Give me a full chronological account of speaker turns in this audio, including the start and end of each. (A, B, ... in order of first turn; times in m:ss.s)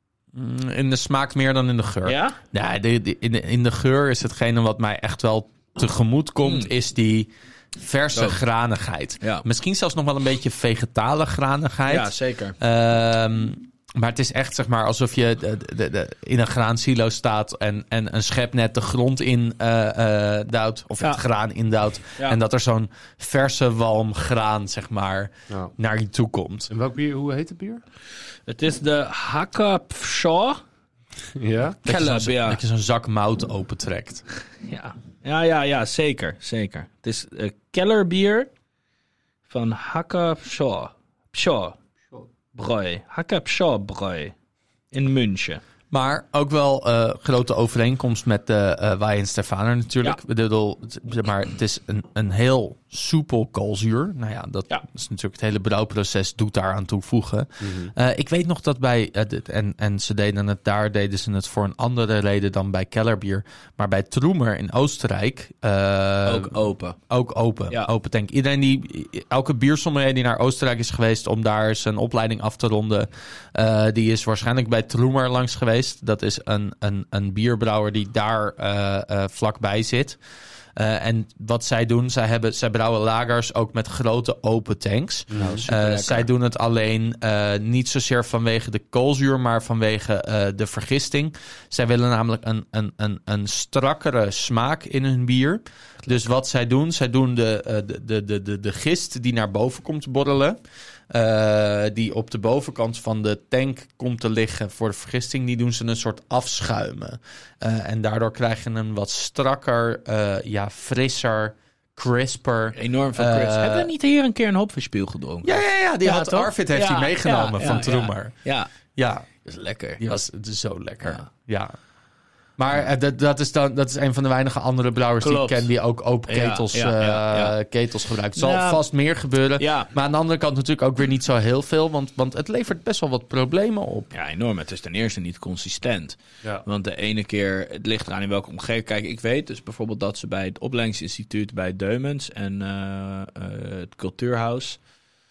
0:00.3-0:26.7 A
0:02.0-0:02.4 B
0:06.4-0:06.7 B
0:08.1-0:08.4 B
0:11.9-0:12.6 B
0:26.7-0:27.8 C
0:28.5-0:30.6 B
0:31.4-0:31.8 C
0:31.8-0:32.6 B
0:31.8-0:34.2 A
0:34.6-0:38.5 B
0:39.5-0:41.8 B
0:42.5-0:44.3 B
0:44.9-0:45.6 B
0:45.9-1:06.6 A
0:57.6-0:57.9 C
1:06.2-1:07.0 B
1:07.1-1:20.2 A
1:20.8-1:40.6 A
1:25.3-1:25.6 C
1:25.3-1:26.3 B
1:41.1-1:53.9 A
1:52.7-1:58.7 B
1:55.4-1:58.3 A
1:59.0-1:59.2 A
1:59.4-2:00.0 B
2:00.0-2:01.8 A
2:02.6-2:14.1 A
2:05.2-2:05.7 B
2:06.3-2:07.5 B
2:08.3-2:08.8 B
2:09.6-2:09.9 B
2:14.1-2:24.8 B